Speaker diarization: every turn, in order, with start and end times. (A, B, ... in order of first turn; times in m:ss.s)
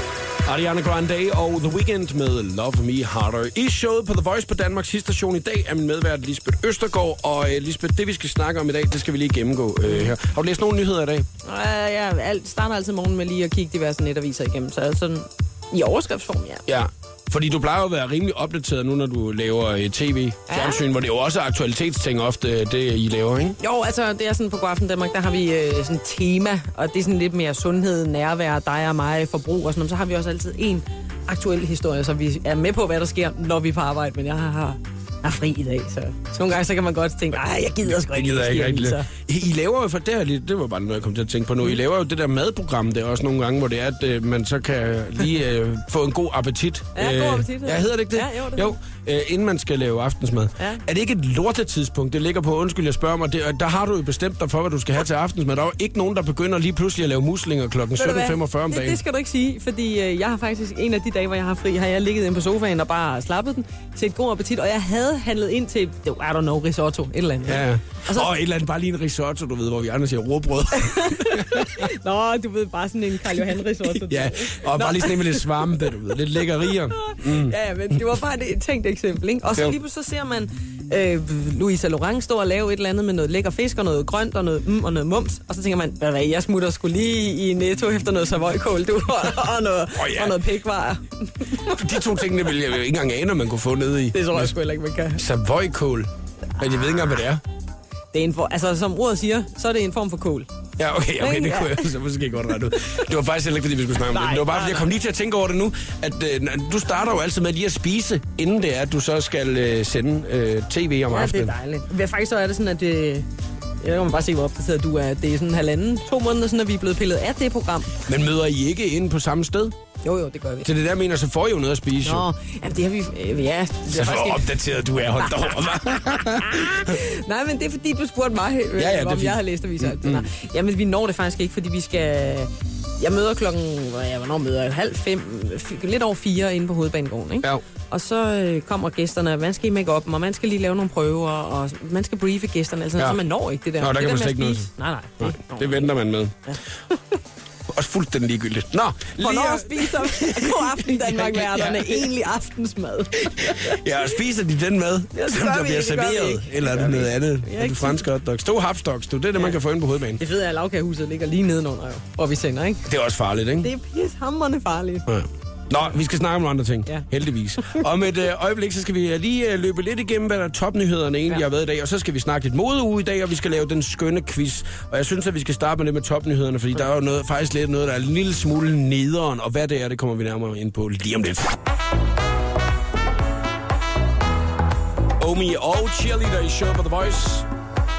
0:00.4-0:11.3 A
0:09.9-0:10.1 B
0:11.4-0:16.6 B
0:16.7-0:23.6 A
0:20.5-0:20.8 B
0:23.6-0:39.1 B
0:38.0-0:59.0 A
0:47.0-0:48.7 B
0:58.0-1:08.3 B
1:07.4-1:11.9 A
1:10.7-1:15.9 B
1:13.9-1:17.6 A
1:16.7-1:31.8 B
1:29.9-1:30.4 A
1:31.6-1:34.6 A
1:34.1-1:35.2 B
1:35.2-1:37.4 A
1:38.1-1:40.5 B
1:40.8-1:51.5 A
1:41.2-1:41.9 B
1:44.1-1:44.9 B
1:51.1-1:53.3 B
1:53.8-1:58.0 B
1:58.0-1:59.8 A
2:00.0-2:00.7 B
2:00.6-2:02.3 A
2:02.0-2:04.5 B
2:03.9-2:07.0 A
2:05.2-2:26.0 B
2:08.8-2:10.3 A
2:23.8-2:24.7 A
2:25.2-2:26.5 A
2:26.5-2:27.0 B
2:27.7-2:32.1 A
2:29.2-2:33.8 B
2:33.2-2:40.2 A
2:35.1-2:38.1 B
2:40.2-2:42.9 B
2:42.9-2:43.7 A
2:43.6-2:45.1 B
2:45.1-3:01.6 A
3:05.2-3:07.5 A